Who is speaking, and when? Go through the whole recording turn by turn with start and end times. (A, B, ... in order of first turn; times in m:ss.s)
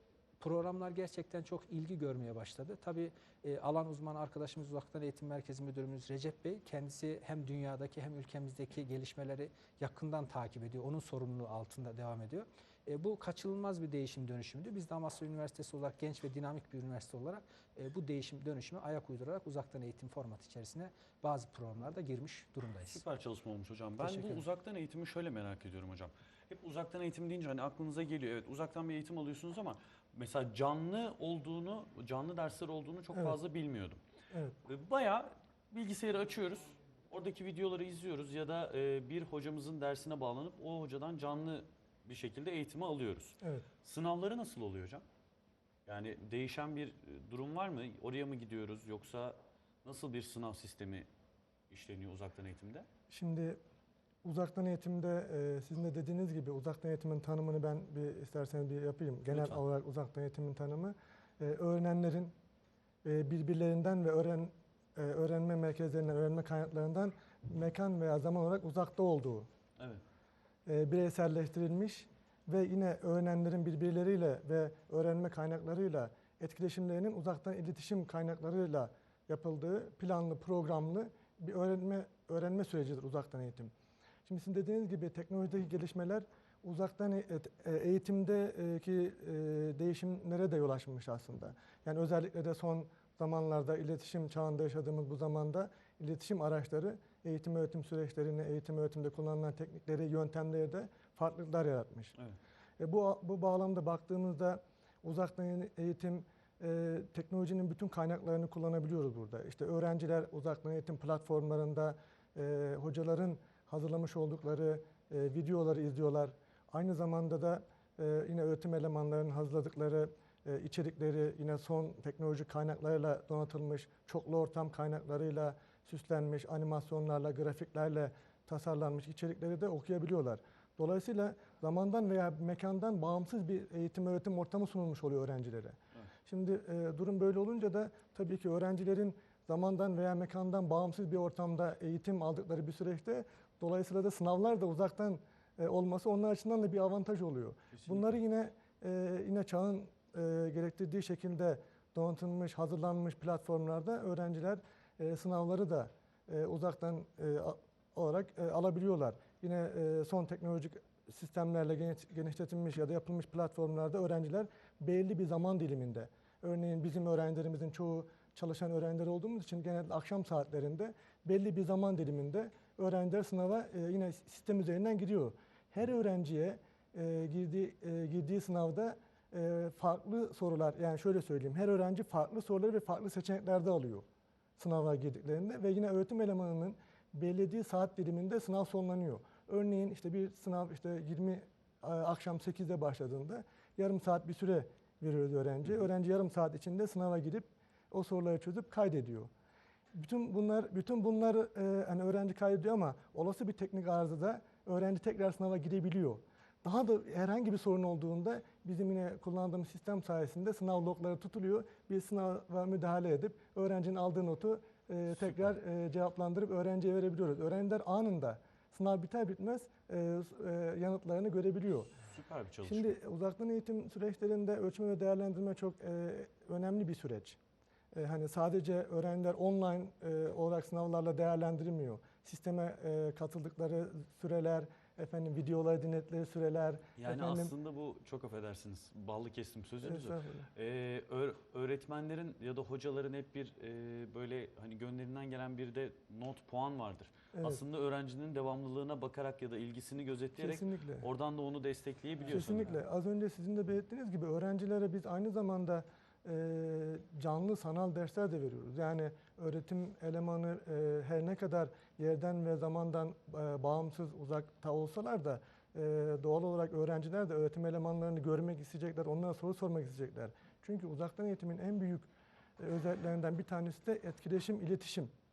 0:00.4-0:23.0 A
0:22.9-0:34.0 B
0:24.0-0:24.4 A
0:34.3-0:34.6 C
0:34.7-0:45.0 B
0:43.4-0:43.7 C
0:45.9-0:51.1 B
0:51.7-0:52.9 B
0:53.1-0:53.6 C
0:54.2-1:02.3 C
0:59.3-0:59.6 B
1:03.0-1:09.5 C
1:10.7-1:23.7 C
1:24.2-1:42.1 C
1:42.8-3:04.1 C
2:27.7-2:28.2 B
3:04.6-3:19.3 C
3:19.9-3:42.0 C
3:42.1-3:43.0 B
3:42.6-3:47.4 C
3:47.9-3:57.5 C
3:57.0-4:12.8 B
3:59.8-4:00.5 C
4:07.3-4:07.6 C
4:10.4-4:11.1 C
4:12.3-4:32.1 C
4:32.6-4:35.1 C